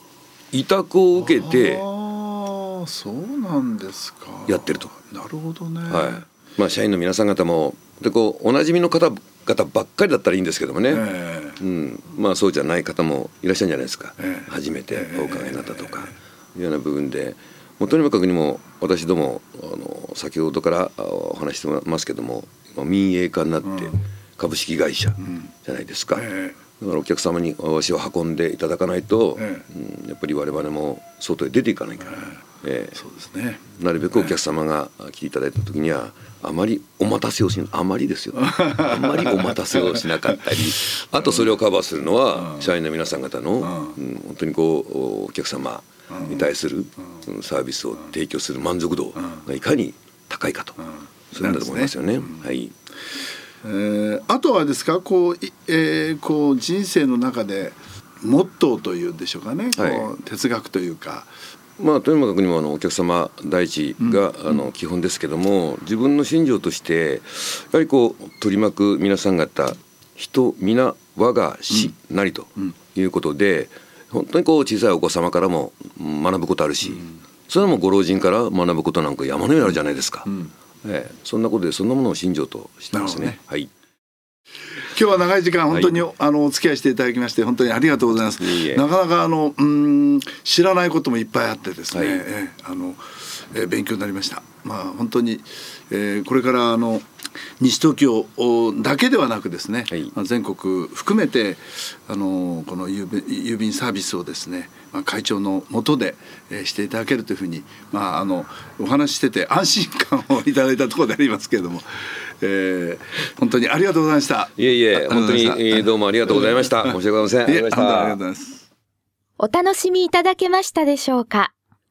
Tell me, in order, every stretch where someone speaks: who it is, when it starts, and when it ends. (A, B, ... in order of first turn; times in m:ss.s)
0:00.5-0:01.8 A
0:01.2-0:06.2 B
0:04.5-0:04.9 A
0:05.9-0:11.1 A
0:10.9-0:11.6 B
0:11.6-0:26.3 A
0:14.2-0:16.1 B
0:23.6-0:23.9 B
0:26.2-0:26.6 B
0:26.8-0:33.0 A
0:29.4-0:29.6 B
0:33.0-0:34.4 B
0:33.7-0:50.8 A
0:38.4-0:40.0 B
0:43.6-0:44.0 B
0:46.1-0:46.4 B
0:51.3-0:52.7 A
0:51.4-0:52.4 B
0:53.6-1:01.3 B
0:59.8-1:00.1 A
1:01.8-1:20.3 A
1:20.3-1:20.5 B
1:20.8-1:23.7 A
1:22.9-1:23.4 B
1:24.9-1:37.1 B
1:25.7-1:26.0 A
1:28.4-1:28.8 A
1:31.9-1:32.2 A
1:37.6-1:58.6 B
1:54.6-1:58.2 A
1:59.4-2:01.5 C